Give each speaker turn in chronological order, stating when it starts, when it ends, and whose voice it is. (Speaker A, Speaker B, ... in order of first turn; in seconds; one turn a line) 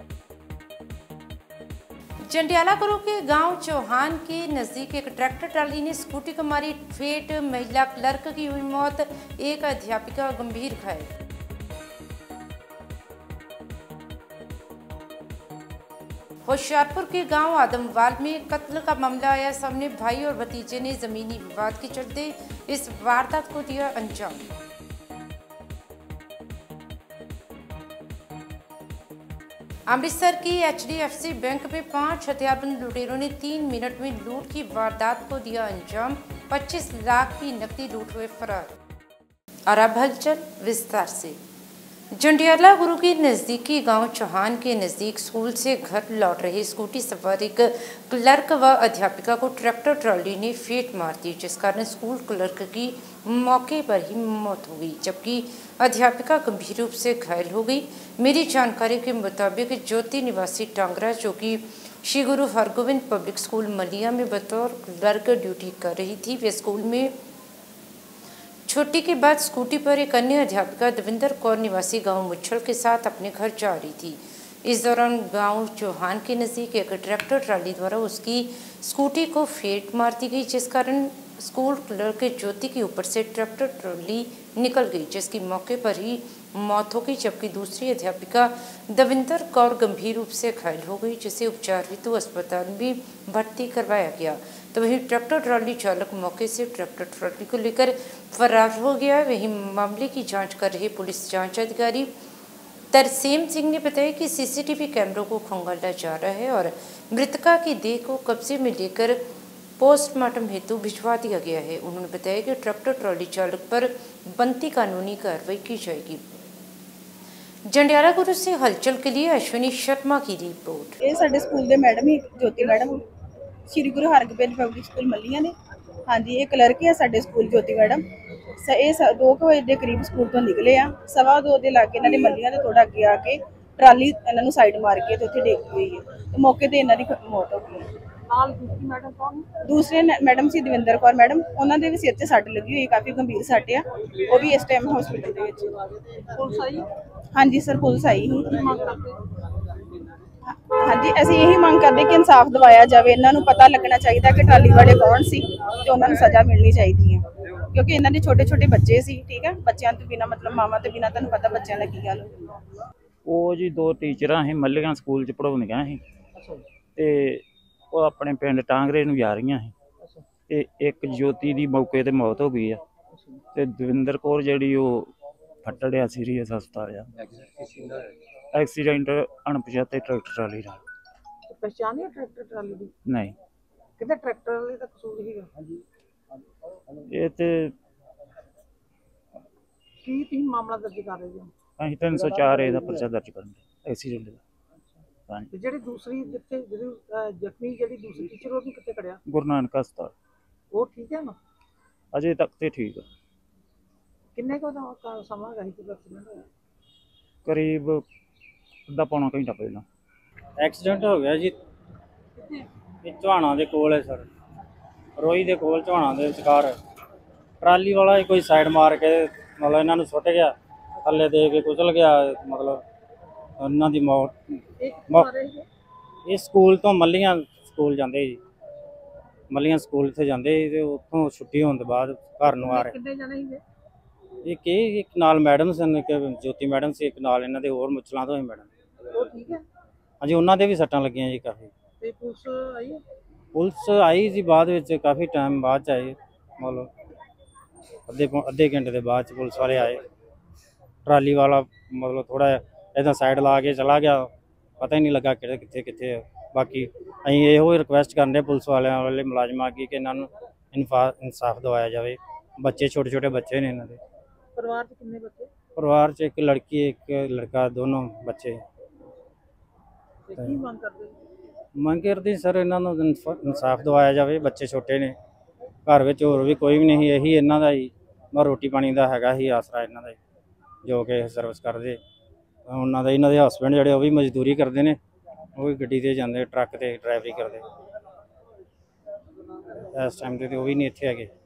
Speaker A: 2.2-11.1
Speaker A: 16.5-24.5
Speaker A: 29.9-38.7
Speaker A: 39.7-41.4
Speaker A: 42.1-67.1
Speaker A: 68.7-102.1
Speaker A: 102.9-109.2
Speaker A: 109.8-116.4
Speaker A: 117.7-121.0
Speaker B: 121.0-123.0
Speaker B: 123.7-125.5
Speaker B: 126.1-128.0
Speaker B: 128.6-137.9
Speaker C: 138.3-139.5
Speaker B: 139.7-145.7
Speaker C: 146.3-146.9
Speaker B: 147.3-148.6
Speaker C: 148.5-149.2
Speaker B: 150.8-162.4
Speaker D: 163.2-166.0
Speaker D: 166.9-169.7
Speaker D: 170.5-172.8
Speaker D: 173.5-175.1
Speaker D: 175.6-177.1
Speaker D: 178.5-180.8
Speaker C: 181.5-182.9
Speaker D: 183.1-183.3
Speaker C: 184.0-185.7
Speaker D: 187.1-187.7
Speaker C: 190.0-191.5
Speaker D: 191.8-194.4
Speaker C: 195.5-199.2
Speaker D: 199.3-200.1
Speaker C: 200.7-201.3
Speaker D: 202.1-203.1
Speaker C: 204.3-206.5
Speaker D: 207.4-208.0
Speaker D: 208.9-209.8
Speaker E: 210.6-211.6
Speaker E: 213.0-214.3
Speaker E: 215.2-216.8
Speaker E: 217.6-222.8
Speaker E: 223.6-224.3
Speaker C: 224.8-225.6
Speaker E: 226.3-228.4
Speaker E: 229.5-232.9
Speaker C: 232.6-233.6
Speaker E: 234.4-238.7
Speaker C: 239.1-239.6
Speaker E: 240.2-241.7
Speaker C: 242.0-243.0
Speaker E: 243.5-246.9
Speaker E: 248.1-250.0
Speaker E: 251.1-264.0
Speaker C: 264.6-265.5
Speaker E: 265.8-268.6
Speaker C: 270.3-271.1
Speaker E: 271.8-275.1
Speaker E: 275.9-280.2
Speaker E: 280.8-282.0
Speaker E: 282.7-285.0
Speaker E: 285.6-287.6
Speaker E: 289.9-291.3